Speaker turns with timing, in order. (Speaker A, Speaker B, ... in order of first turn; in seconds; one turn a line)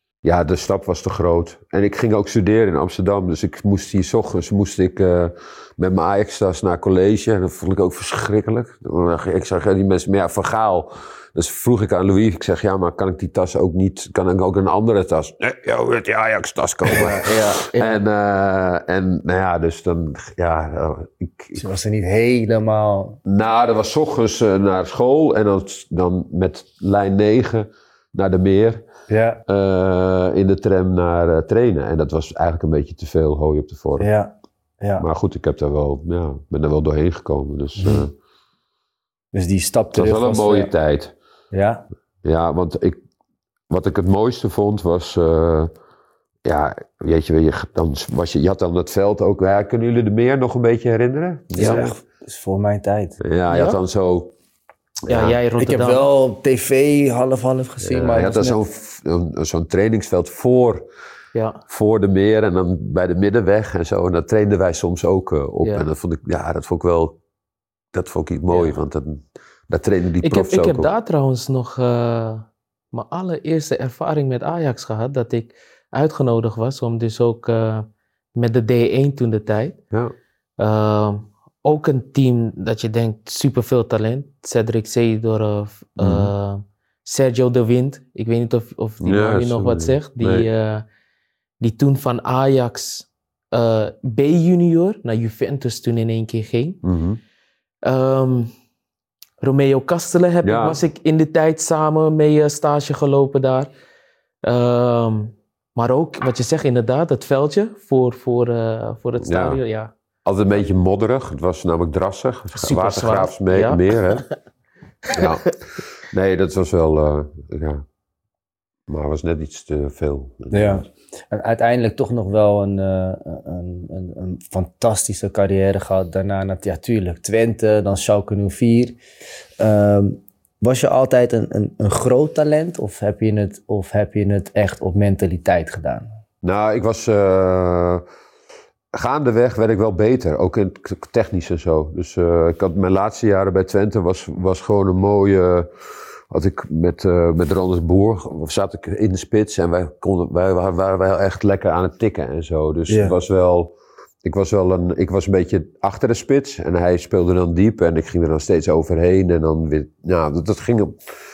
Speaker A: 0.2-21.7
Speaker B: 16.9-17.3
Speaker C: 16.9-18.0
Speaker B: 21.6-23.2
Speaker A: 23.3-28.8
Speaker B: 29.1-29.4
Speaker A: 29.5-34.1
Speaker B: 34.0-35.1
Speaker A: 35.0-38.1
Speaker B: 37.8-38.1
Speaker B: 39.3-40.7
Speaker A: 39.9-41.1
Speaker B: 41.5-41.9
Speaker A: 42.2-43.0
Speaker A: 43.7-45.7
Speaker A: 46.5-52.0
Speaker C: 51.6-51.8
Speaker B: 51.6-53.2
Speaker A: 53.2-54.3
Speaker C: 53.5-53.8
Speaker A: 55.1-55.4
Speaker C: 55.1-56.1
Speaker B: 55.6-58.6
Speaker A: 57.8-60.8
Speaker C: 61.3-61.6
Speaker A: 61.7-67.2
Speaker A: 67.9-70.9
Speaker C: 68.5-68.8
Speaker C: 70.2-79.8
Speaker C: 80.6-90.8
Speaker A: 86.0-86.3
Speaker A: 89.0-90.5
Speaker C: 91.6-96.8
Speaker A: 96.8-97.2
Speaker C: 97.8-98.5
Speaker C: 99.4-103.7
Speaker A: 100.4-100.8
Speaker C: 104.4-109.9
Speaker A: 109.2-109.6
Speaker A: 110.2-114.3
Speaker C: 112.5-114.3
Speaker A: 115.1-117.9
Speaker A: 118.9-120.9
Speaker B: 120.5-129.0
Speaker B: 129.6-136.1
Speaker A: 136.4-138.0
Speaker A: 138.9-145.7
Speaker A: 146.3-161.0
Speaker B: 152.9-153.1